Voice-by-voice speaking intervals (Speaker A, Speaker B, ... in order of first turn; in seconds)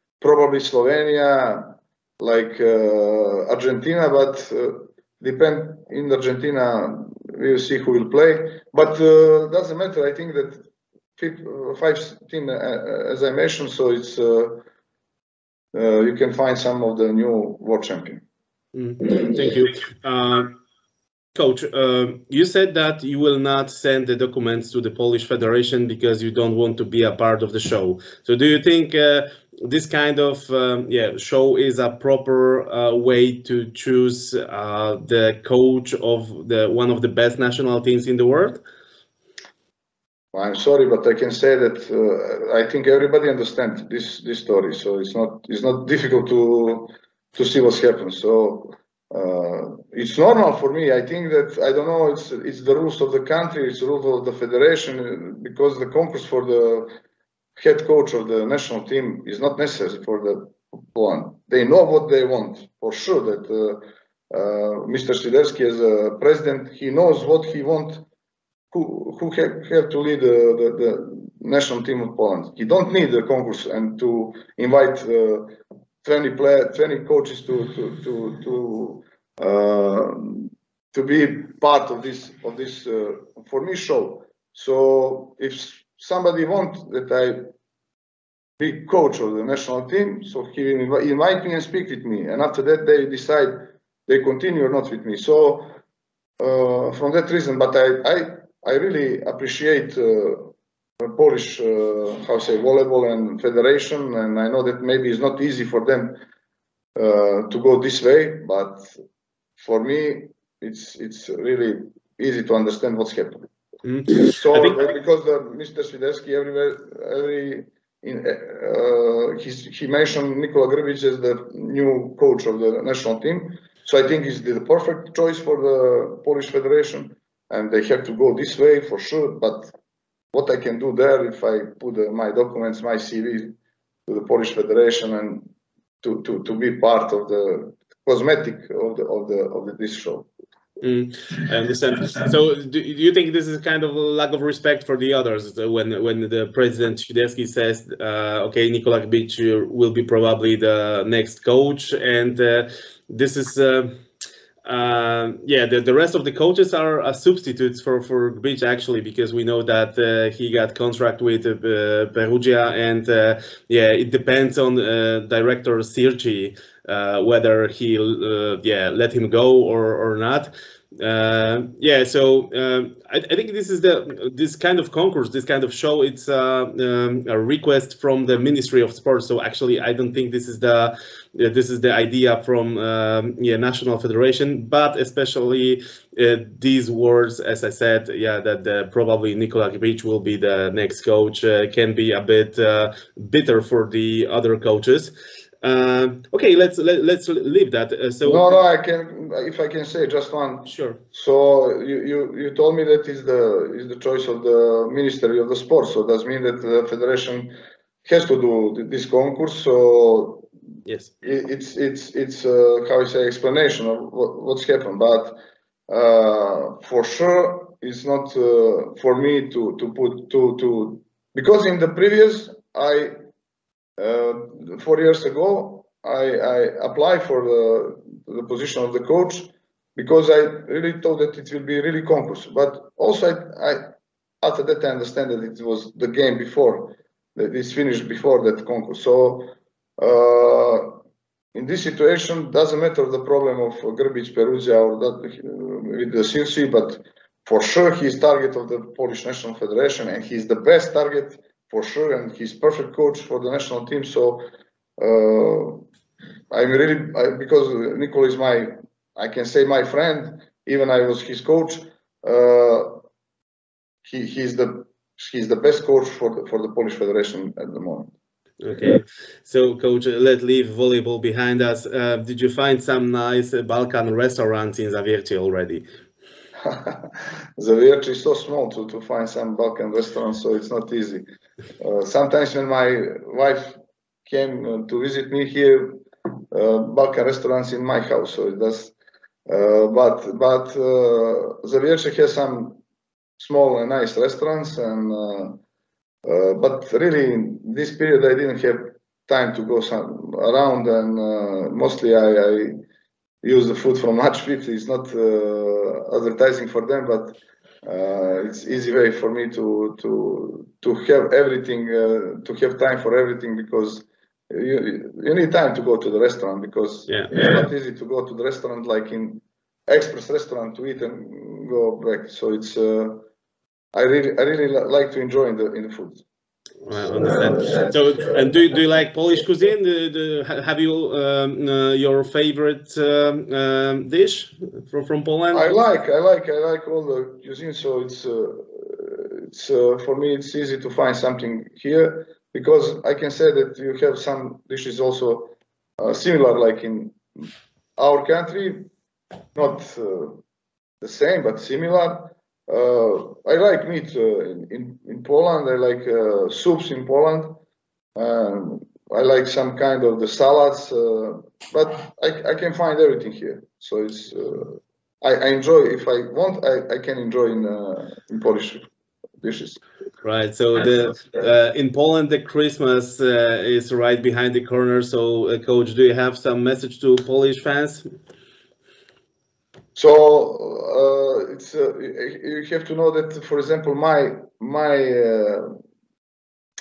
Speaker A: 0.2-10.6, 11.2-14.6, 15.7-18.2, 40.3-56.9, 57.6-68.0, 68.7-87.5, 88.6-95.7, 96.4-106.2, 107.0-108.9, 109.6-113.5, 114.1-129.7, 130.3-133.6, 134.1-135.5, 136.0-140.3, 198.2-210.5, 211.2-223.2, 224.0-233.9, 234.4-241.0, 241.5-254.5, 255.0-255.8, 256.5-263.0, 264.1-268.1, 276.6-281.3, 281.8-288.9, 289.5-292.8, 293.4-295.6, 296.2-302.8, 303.4-323.3, 323.9-326.2, 327.2-327.8, 335.5-347.5, 348.0-348.9, 349.6-350.4, 351.0-357.6, 358.2-368.9, 369.4-369.8, 380.0-385.7
Speaker B: 18.7-20.5, 21.4-38.6, 113.8-114.8, 140.8-154.0, 154.7-198.5, 200.7-201.0, 210.9-211.1, 268.6-275.9, 326.8-335.7, 370.2-378.1